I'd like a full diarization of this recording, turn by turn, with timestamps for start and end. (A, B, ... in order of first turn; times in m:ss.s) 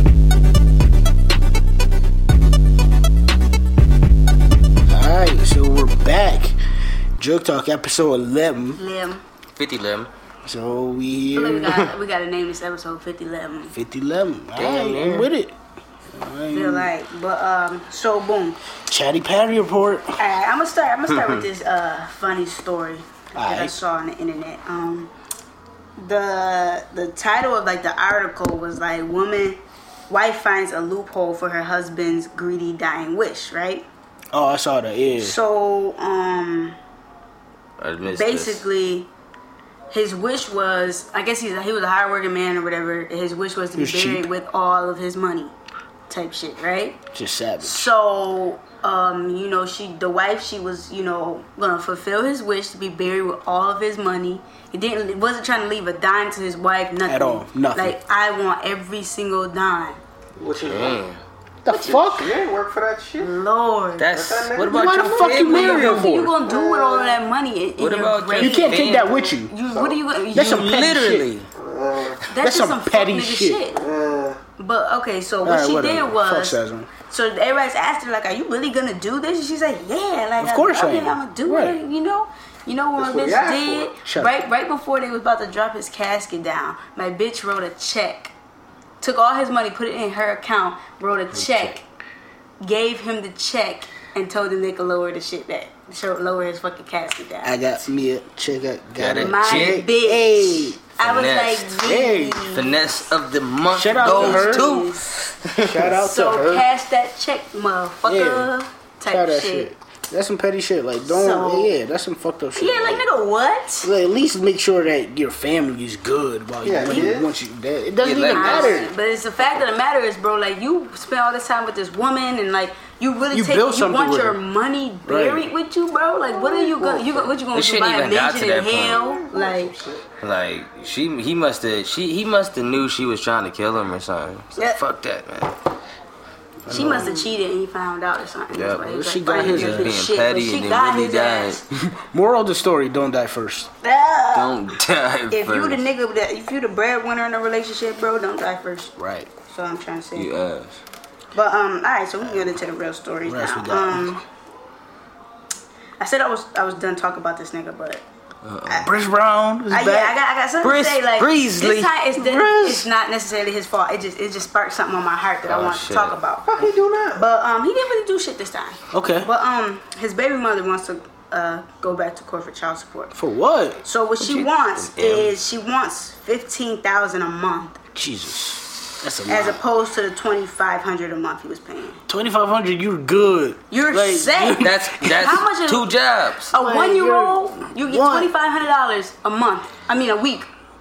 0:04.9-0:06.5 A
0:07.2-0:08.8 A
0:08.8-0:09.2 B
0:09.6-0:10.1 C
0:10.4-0:11.8 A
0:11.3-0:13.7 B
0:13.7-0:15.5 A
0:14.6-0:15.3 C
0:16.1-0:16.9 A
0:16.5-0:18.6 B
0:18.9-0:20.2 A
0:20.2-0:25.1 B
0:21.1-0:21.4 C
0:23.3-0:23.7 A
0:26.0-0:33.8 B
0:34.3-0:35.4 A
0:35.2-0:36.8 B
0:37.8-0:38.6 C
0:38.1-0:39.1 B
0:39.9-0:45.5 B
0:43.7-0:44.3 A
0:46.1-0:47.0 B
0:47.1-0:47.9 A
0:47.6-1:00.0 B
0:57.0-0:58.0 A
1:00.4-1:01.0 D
1:00.6-1:01.2 C
1:01.6-1:02.3 A
1:01.7-1:02.2 B
1:02.0-1:03.4 D
1:03.2-1:04.1 B
1:04.0-1:06.1 C
1:04.1-1:05.3 D
1:04.6-1:06.4 A
1:05.3-1:08.9 B
1:06.4-1:07.2 D
1:07.8-1:09.1 C
1:08.4-1:09.5 A
1:09.0-1:10.0 D
1:09.5-1:10.7 B
1:10.3-1:11.3 A
1:10.4-1:11.5 C
1:11.6-1:12.2 D
1:12.3-1:13.8 B
1:12.4-1:13.6 A
1:13.8-1:14.4 D
1:14.6-1:28.3 B
1:15.4-1:16.9 A
1:20.4-1:21.8 A
1:23.0-1:24.0 D
1:24.0-1:24.4 A
1:29.0-1:31.8 B
1:31.3-1:31.8 A
1:32.6-1:37.6 B
1:37.4-1:40.8 A
1:39.0-1:39.8 C
1:39.2-1:42.8 B
1:41.0-1:41.7 C
1:41.7-1:42.5 A
1:42.5-1:45.9 C
1:43.7-1:44.7 A
1:44.0-1:45.2 B
1:45.6-1:46.6 A
1:46.0-1:49.7 B
1:48.1-1:48.5 A
1:49.1-1:53.1 A
1:51.1-1:51.7 B
1:52.6-1:53.9 B
1:53.8-1:58.9 A
1:56.6-1:57.3 D
1:56.8-1:57.1 B
1:58.0-1:58.8 C
1:58.3-2:09.7 B
2:03.3-2:04.4 A
2:05.0-2:05.5 A
2:06.3-2:07.3 D
2:07.5-2:09.0 C
2:08.7-2:10.0 D
2:10.2-2:15.5 C
2:16.6-2:17.3 A
2:16.7-2:21.6 B
2:18.5-2:21.6 C
2:18.8-2:20.0 A
2:21.8-2:23.7 A
2:23.8-2:24.5 B
2:24.3-2:25.8 C
2:25.3-2:28.9 B
2:29.0-2:29.3 A
2:29.5-2:30.3 B
2:30.2-2:30.8 C
2:31.3-2:34.2 B
2:33.2-2:34.2 A
2:36.0-2:38.0 B
2:38.4-2:38.9 C
2:38.8-2:40.2 A
2:39.7-2:46.4 B
2:40.6-2:41.9 C
2:42.1-2:42.9 A
2:45.4-2:46.2 C
2:46.4-2:47.2 D
2:47.2-2:53.1 B
2:48.9-2:49.3 A
2:53.1-2:53.8 A
2:53.8-2:57.8 B
2:54.2-2:55.3 C
2:57.9-2:59.6 A
2:59.3-3:02.0 B
3:02.1-3:05.4 A
3:03.7-3:05.9 B
3:04.6-3:06.5 C
3:06.5-3:10.5 B
3:06.5-3:08.3 A